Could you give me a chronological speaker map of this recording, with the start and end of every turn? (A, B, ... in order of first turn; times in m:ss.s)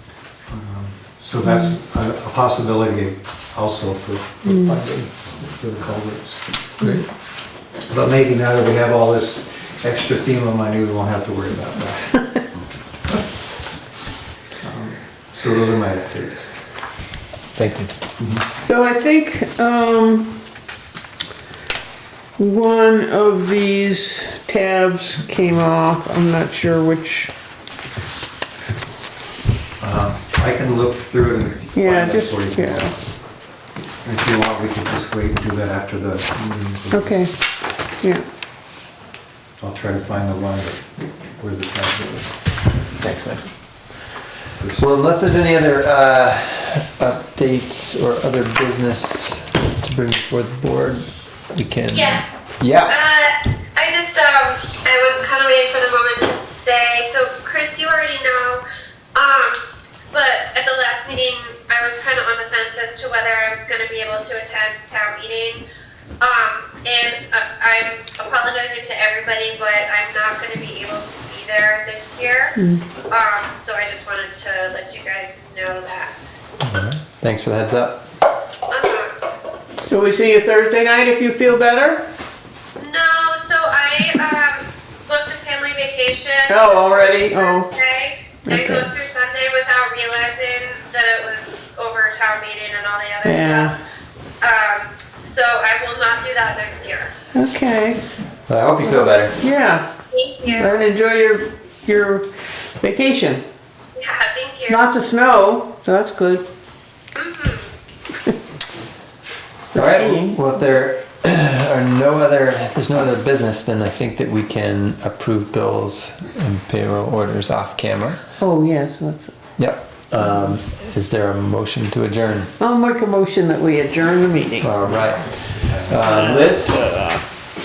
0:00.5-0:06.5 A
0:07.8-0:12.4 A
0:14.6-0:16.6 A
0:17.6-0:17.9 B
0:18.2-0:18.4 A
0:18.6-0:20.4 C
0:22.4-0:27.3 C
0:29.8-0:33.0 A
0:31.7-0:32.9 C
0:34.0-0:37.2 A
0:36.9-0:37.3 C
0:39.6-0:42.4 A
0:43.0-0:43.5 B
0:44.6-0:44.8 A
0:44.8-0:53.0 B
0:51.9-0:52.2 D
0:52.9-0:58.6 D
0:59.2-1:05.6 D
1:06.2-1:12.6 D
1:12.6-1:12.9 C
1:13.1-1:16.1 D
1:16.6-1:18.0 B
1:18.7-1:19.2 D
1:19.9-1:22.0 C
1:22.8-1:33.8 D
1:26.5-1:27.7 C
1:28.4-1:28.9 C
1:33.2-1:33.8 C
1:34.4-1:37.1 D
1:37.3-1:38.0 C
1:38.5-1:39.4 B
1:39.4-1:39.9 C
1:40.1-1:40.7 D
1:40.4-1:43.4 C
1:43.9-1:44.8 D
1:44.7-1:46.4 C
1:47.1-1:47.7 D
1:49.7-1:50.4 C
1:49.7-1:58.2 B
1:58.4-1:59.3 C
1:59.6-2:02.5 B
2:02.6-2:04.7 C
2:04.6-2:06.8 B
2:05.6-2:06.1 A
2:06.1-2:07.2 C